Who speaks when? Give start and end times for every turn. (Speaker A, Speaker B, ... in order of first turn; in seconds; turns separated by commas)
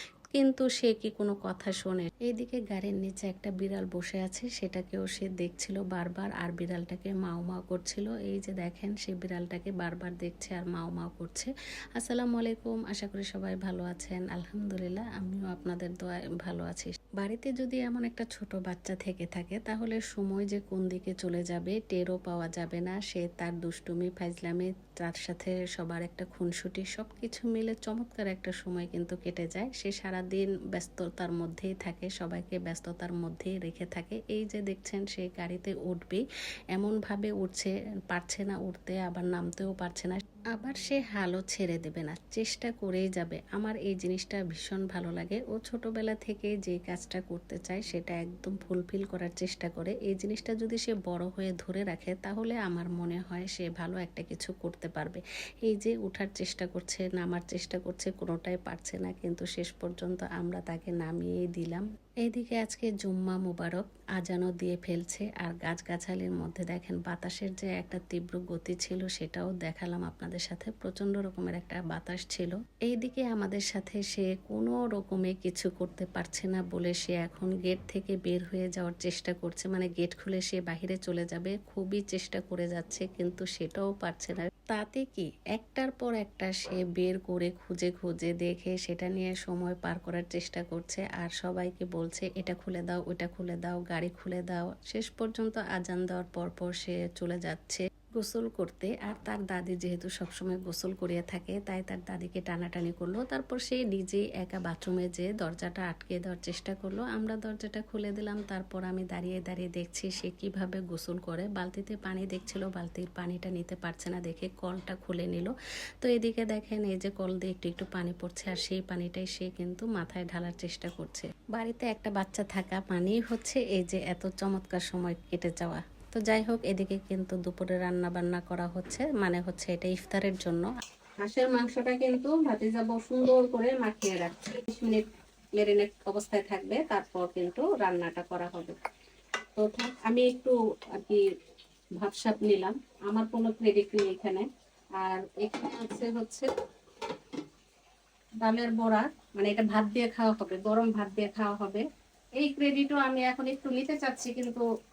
Speaker A: 0.3-36.2, Speaker A: 36.7-130.7, Speaker A: 131.2-135.0, Speaker A: 135.6-138.8, Speaker A: 139.6-141.2, Speaker A: 142.0-144.4, Speaker A: 145.0-146.5, Speaker A: 148.4-151.8, Speaker A: 152.4-154.7